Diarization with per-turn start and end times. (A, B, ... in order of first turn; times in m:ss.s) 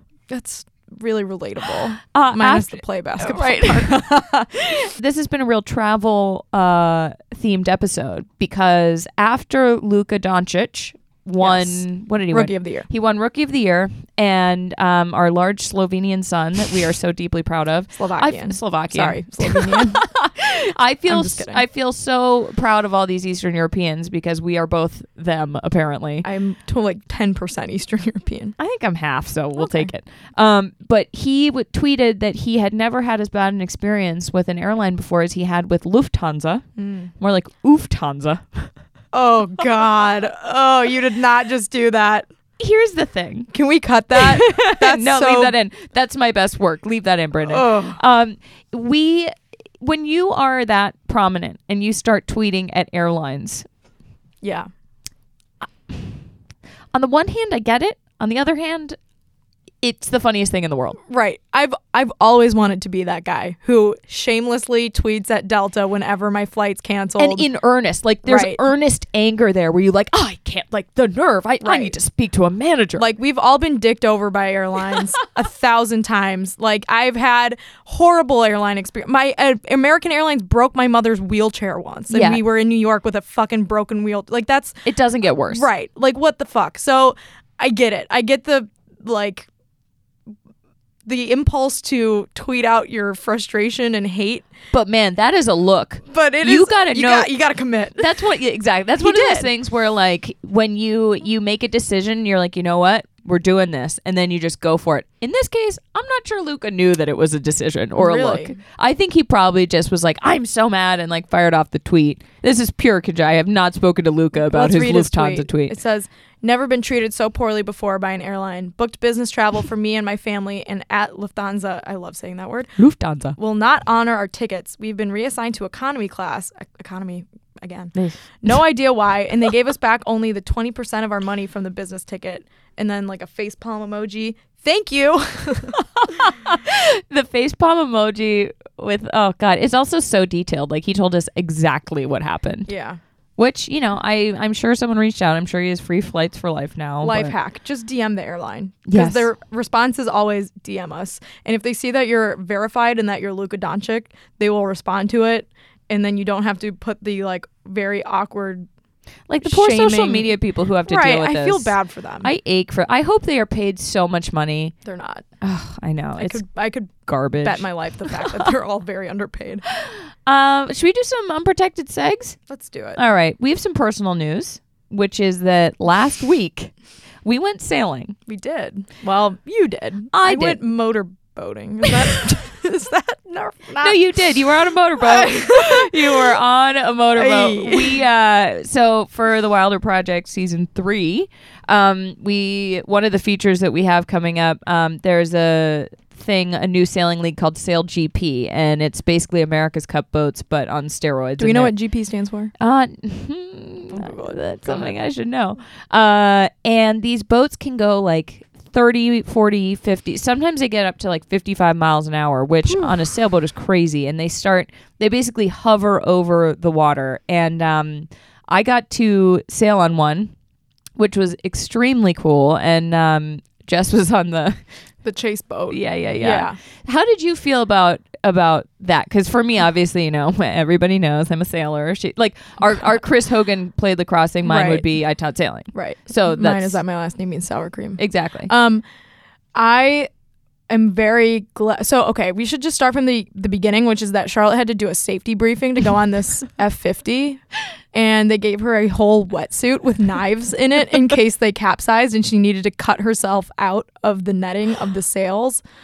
0:00.3-0:04.1 A
0:02.1-0:26.3 B
0:11.4-0:12.9 A
0:18.0-0:20.0 A
0:21.1-0:21.6 A
0:26.2-0:28.6 A
0:28.6-0:36.6 B
0:29.6-0:29.9 A
0:36.8-0:37.1 A
0:37.2-0:38.7 B
0:39.1-0:42.3 A
0:42.6-0:43.5 B
0:43.5-0:45.5 A
0:44.1-0:53.6 B
0:47.4-0:48.0 A
0:54.4-0:54.7 A
0:56.9-0:59.0 B
0:59.8-1:01.0 B
1:01.1-1:07.4 A
1:07.2-1:13.0 B
1:08.2-1:08.6 A
1:11.6-1:11.9 A
1:13.0-1:24.8 A
1:22.1-1:22.4 B
1:24.8-1:25.7 B
1:25.5-1:29.5 A
1:31.0-1:34.5 A
1:34.7-1:37.3 B
1:36.1-1:38.1 A
1:38.0-1:55.8 B
1:39.0-1:39.5 A
1:47.9-1:48.6 A
1:54.3-2:02.8 A
2:02.8-2:03.4 B
2:03.4-2:15.8 A
2:07.9-2:08.6 B
2:15.8-2:22.7 B
2:22.7-2:23.0 A
2:23.4-2:27.3 B
2:27.0-2:38.7 A
2:28.9-2:29.2 B
2:39.3-2:44.7 B
2:39.4-2:40.3 A
2:40.8-2:42.3 A
2:44.8-2:45.2 A
2:45.4-2:46.4 B
2:46.2-2:49.6 A
2:47.0-2:48.2 B
2:49.7-2:52.4 B
2:52.5-2:53.0 A
2:53.0-2:56.7 B
2:57.2-2:58.1 B
2:58.3-3:04.0 A
3:00.1-3:00.6 B
3:03.8-3:21.7 B
3:05.0-3:06.3 A
3:07.1-3:08.0 A
3:21.4-3:22.5 A
3:22.6-3:40.3 B
3:23.9-3:24.9 A
3:32.7-3:32.9 A
3:41.0-3:44.6 B
3:45.0-3:46.6 A
3:45.7-3:56.8 B
3:54.4-3:54.8 A
3:55.7-3:58.8 A
3:58.0-3:58.5 B
3:59.5-4:00.1 A
4:00.7-4:07.4 A
4:07.9-4:15.6 A